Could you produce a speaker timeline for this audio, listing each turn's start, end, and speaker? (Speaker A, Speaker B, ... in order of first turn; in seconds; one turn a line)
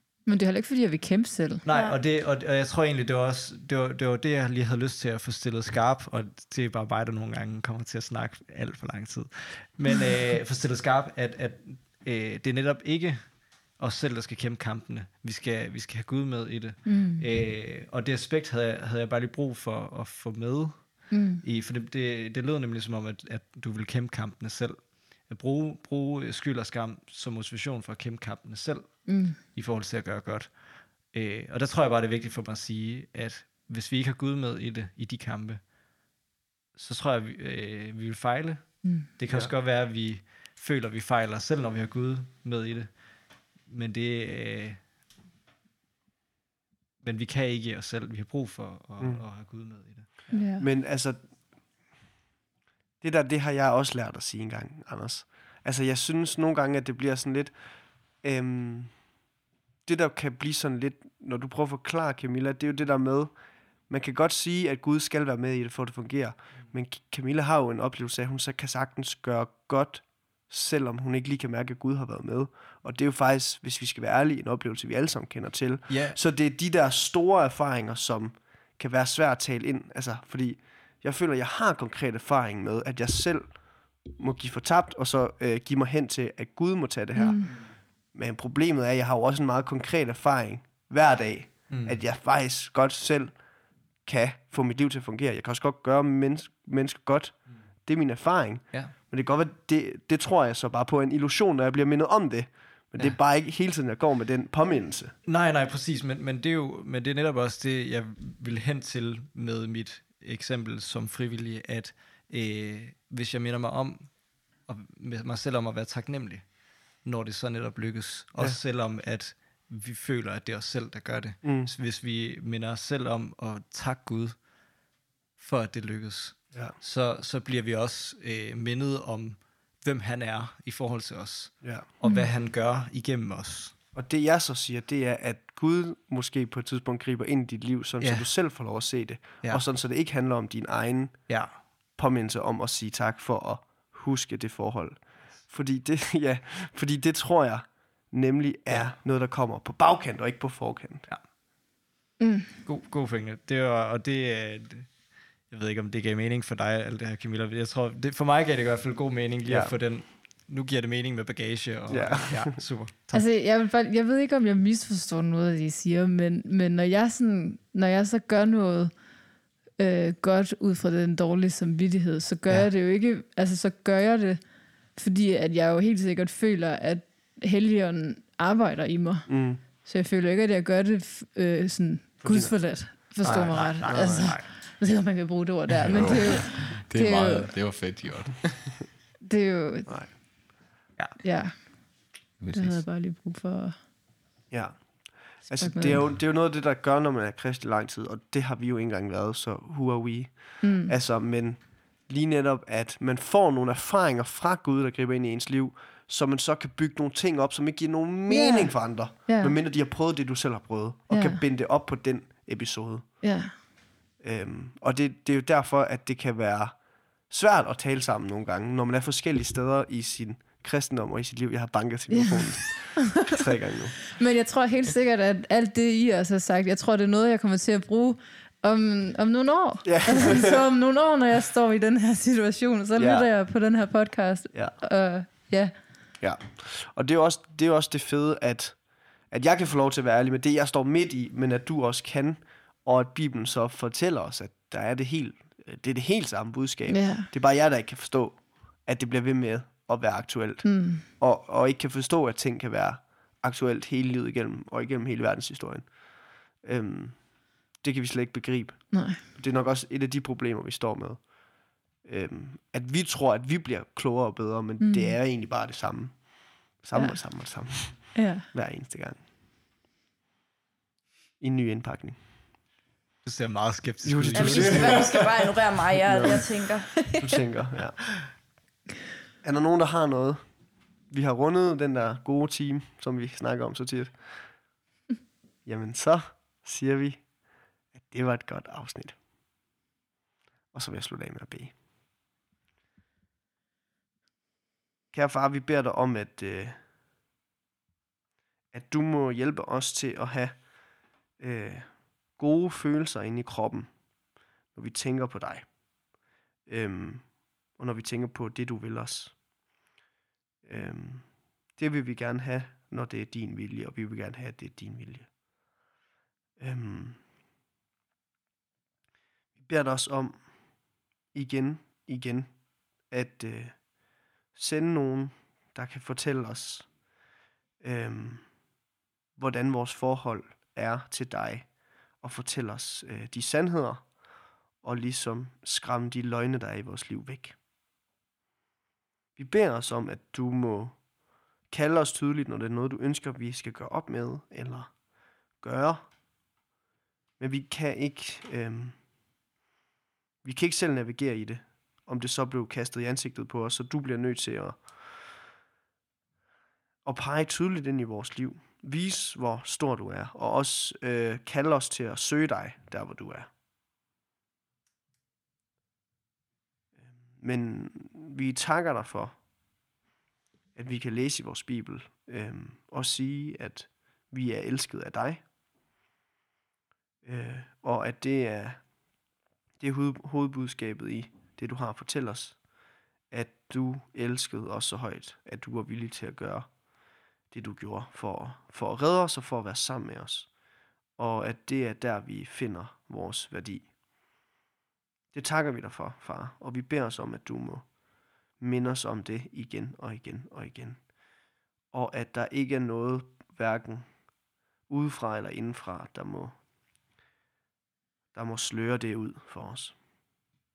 Speaker A: 0.3-1.6
Speaker B: 1.6-35.6
Speaker C: 1.7-2.0
Speaker A: 16.9-17.2
Speaker A: 21.1-21.4
Speaker A: 29.1-29.4
Speaker B: 36.8-42.9
Speaker B: 43.7-44.8
Speaker B: 47.0-50.3
Speaker D: 49.0-49.2
Speaker A: 50.3-50.7
Speaker D: 50.5-51.2
Speaker D: 53.0-57.6
Speaker D: 58.2-59.0
Speaker D: 59.9-63.4
Speaker D: 63.9-93.4
Speaker B: 75.9-76.2
Speaker A: 87.2-87.5
Speaker B: 91.7-92.0
Speaker D: 94.0-105.2
Speaker B: 105.2-116.5
Speaker B: 117.0-124.4
Speaker D: 121.4-121.7
Speaker B: 125.4-133.8
Speaker A: 132.0-132.3
Speaker D: 133.9-141.4
Speaker B: 138.0-138.3
Speaker B: 141.3-141.6
Speaker D: 142.0-151.1
Speaker A: 152.2-152.5
Speaker B: 152.6-154.9
Speaker B: 155.5-163.3
Speaker D: 159.4-159.7
Speaker D: 161.9-162.6
Speaker A: 163.1-168.9
Speaker A: 169.8-174.4
Speaker A: 174.9-187.6
Speaker D: 179.3-179.6
Speaker D: 182.2-184.4
Speaker B: 183.2-184.5
Speaker E: 185.9-188.9
Speaker A: 189.2-190.1
Speaker D: 189.9-190.1
Speaker A: 191.2-193.8
Speaker E: 192.4-192.9
Speaker D: 194.5-213.2
Speaker A: 195.6-196.1
Speaker A: 200.6-201.0
Speaker A: 208.3-209.6
Speaker A: 211.1-211.4
Speaker A: 213.2-213.6
Speaker D: 214.2-224.2
Speaker A: 222.1-223.2
Speaker A: 224.2-235.7
Speaker D: 229.8-230.6
Speaker D: 233.0-233.3
Speaker D: 236.2-269.2
Speaker A: 246.9-247.3
Speaker A: 250.6-251.1
Speaker A: 258.9-259.2
Speaker A: 264.8-265.2
Speaker A: 266.9-268.5
Speaker D: 271.4-272.2
Speaker B: 273.2-275.4
Speaker D: 274.0-275.4
Speaker C: 274.4-277.0
Speaker D: 276.0-276.4
Speaker D: 277.0-278.3
Speaker D: 279.4-280.5
Speaker D: 281.1-284.5
Speaker D: 285.6-287.3
Speaker D: 287.9-289.2
Speaker D: 290.7-291.7
Speaker D: 295.1-296.8
Speaker D: 298.7-300.6
Speaker D: 301.4-303.9
Speaker D: 304.7-305.7
Speaker D: 306.7-309.4
Speaker D: 310.6-315.3
Speaker D: 316.6-317.2
Speaker D: 319.6-320.4
Speaker D: 321.3-322.5
Speaker D: 323.1-323.9
Speaker D: 324.5-326.9
Speaker D: 327.8-328.4
Speaker D: 329.4-334.1
Speaker D: 334.8-337.6
Speaker D: 339.4-341.0
Speaker D: 341.7-344.9
Speaker D: 345.6-346.1
Speaker D: 347.4-349.0
Speaker D: 350.4-354.9
Speaker D: 357.1-363.5
Speaker D: 367.0-369.4
Speaker D: 370.8-375.4
Speaker D: 377.2-378.8
Speaker D: 379.8-382.6
Speaker D: 383.3-386.7
Speaker D: 387.5-390.5
Speaker D: 391.2-393.9
Speaker D: 395.3-397.9
Speaker D: 398.6-401.0
Speaker D: 401.9-404.1
Speaker D: 404.9-406.6
Speaker D: 408.3-409.9